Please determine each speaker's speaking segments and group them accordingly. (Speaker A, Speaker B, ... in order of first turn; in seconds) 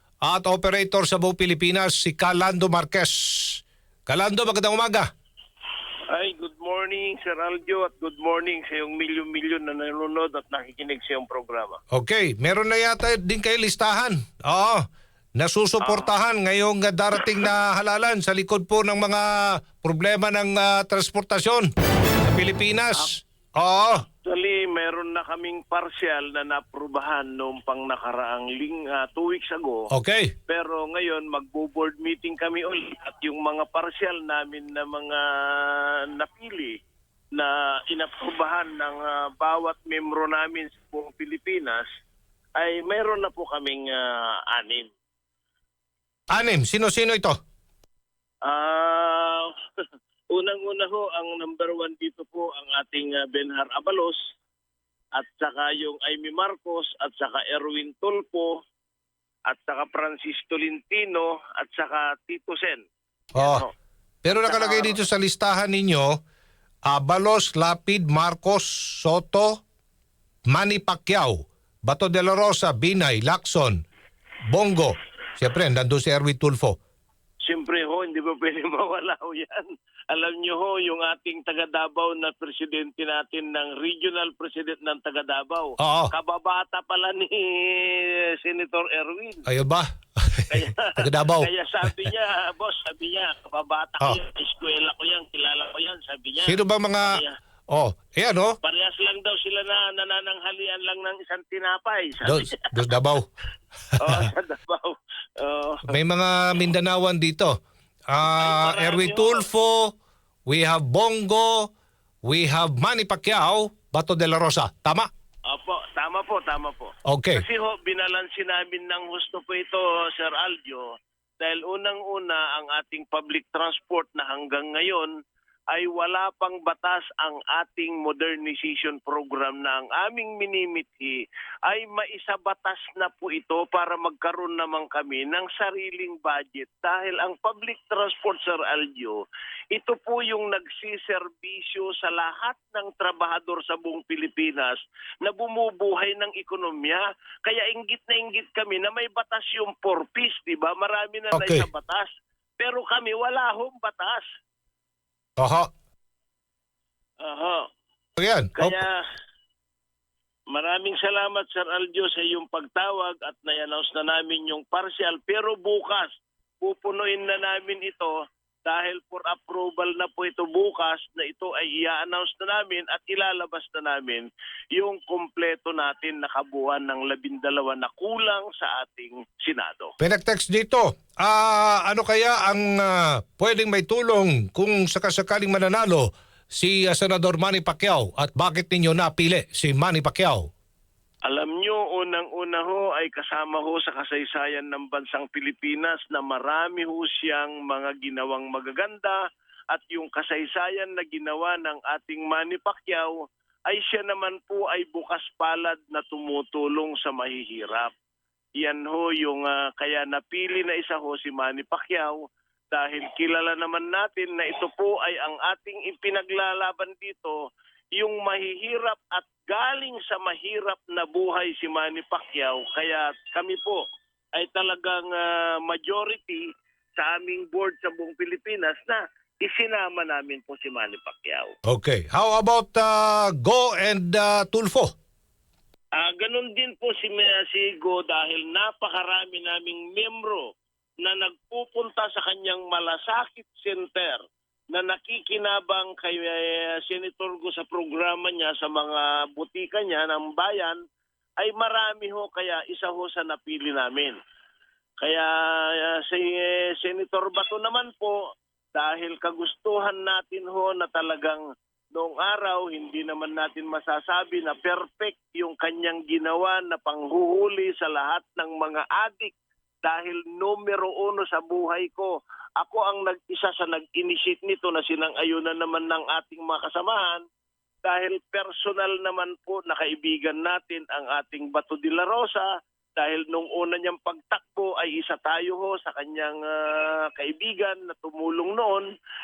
Speaker A: 0.2-5.1, 11.9-14.8, 15.4-24.0, 29.9-30.3, 46.3-47.4, 63.3-63.6, 64.2-66.1, 66.9-69.6, 70.5-73.8, 74.5-76.8, 85.8-86.1, 89.5-91.5, 96.4-98.5, 102.2-103.3, 105.9-107.5, 108.1-109.9, 110.5-111.7, 112.2-115.1, 117.1-117.4, 151.3-151.6, 155.4-155.7, 158.2-158.8, 180.0-190.5, 231.7-234.9
Speaker B: 6.1-11.8, 15.8-16.1, 24.2-29.9, 30.5-36.8, 37.3-41.8, 42.5-44.9, 48.4-49.5, 50.3-54.2, 55.1-58.6, 59.5-62.9, 63.4-63.7, 64.3-65.0, 77.4-89.5, 90.5-97.3, 98.6-102.7, 104.0-105.8, 108.2-109.4, 115.5-120.8, 121.4-125.1, 125.7-152.1, 152.6-154.2, 157.2-157.7, 158.6-159.0, 160.5-179.9, 191.2-199.2, 199.7-207.9, 208.6-217.4, 217.9-223.8, 224.3-226.4, 227.0-231.5, 235.9-244.2, 244.7-250.8, 251.4-254.2, 255.0-258.2, 258.7-261.4, 261.9-277.2, 277.8-288.9